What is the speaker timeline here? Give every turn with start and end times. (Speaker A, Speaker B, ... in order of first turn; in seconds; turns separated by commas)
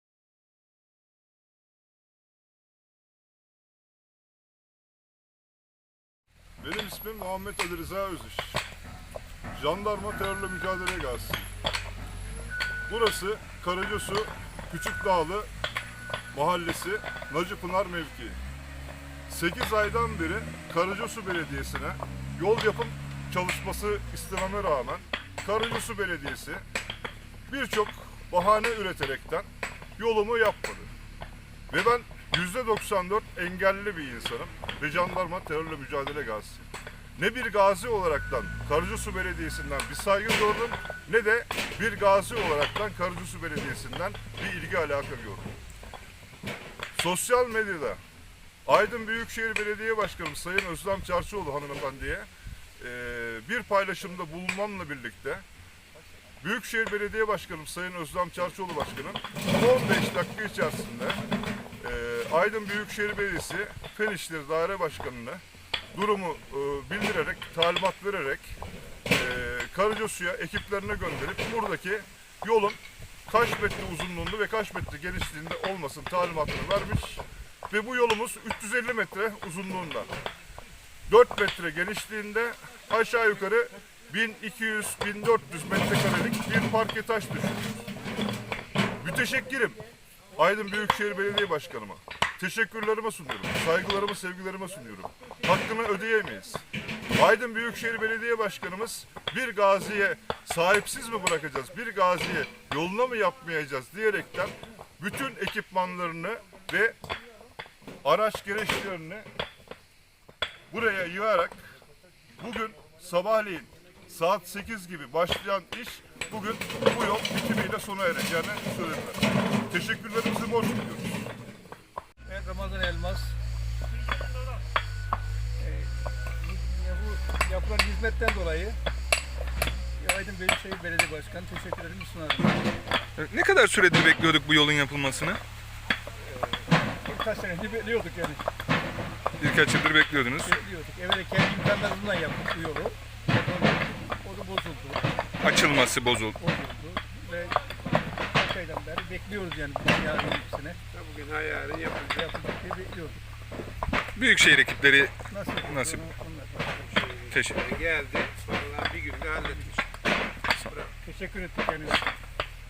Speaker A: 6.6-8.6, Speaker A: 9.5-11.5, Speaker A: 12.9-15.5, Speaker A: 16.3-18.4, Speaker A: 19.3-26.6, Speaker A: 27.5-30.9, Speaker A: 31.7-45.5, Speaker A: 46.9-48.0, Speaker A: 48.6-55.4, Speaker A: 56.4-61.2, Speaker A: 61.8-65.4, Speaker A: 65.9-68.5, Speaker A: 69.1-80.2, Speaker A: 81.1-87.8, Speaker A: 89.0-89.8, Speaker A: 90.3-96.6, Speaker A: 97.1-107.0, Speaker A: 108.0-109.3, Speaker A: 110.7-111.7, Speaker A: 112.4-121.3, Speaker B: 122.3-123.3, Speaker B: 125.6-128.8, Speaker B: 129.9-132.6, Speaker C: 133.2-135.4, Speaker B: 137.0-138.4, Speaker C: 139.4-140.6, Speaker B: 140.4-145.0, Speaker C: 145.4-146.3, Speaker B: 146.4-147.6, Speaker B: 148.2-150.8, Speaker D: 150.9-152.1, Speaker B: 152.1-153.2, Speaker C: 154.1-155.1, Speaker B: 155.3-156.9, Speaker C: 155.7-156.0, Speaker D: 157.0-159.6, Speaker C: 157.3-157.6, Speaker B: 159.4-159.7, Speaker D: 160.6-160.9, Speaker B: 161.0-162.0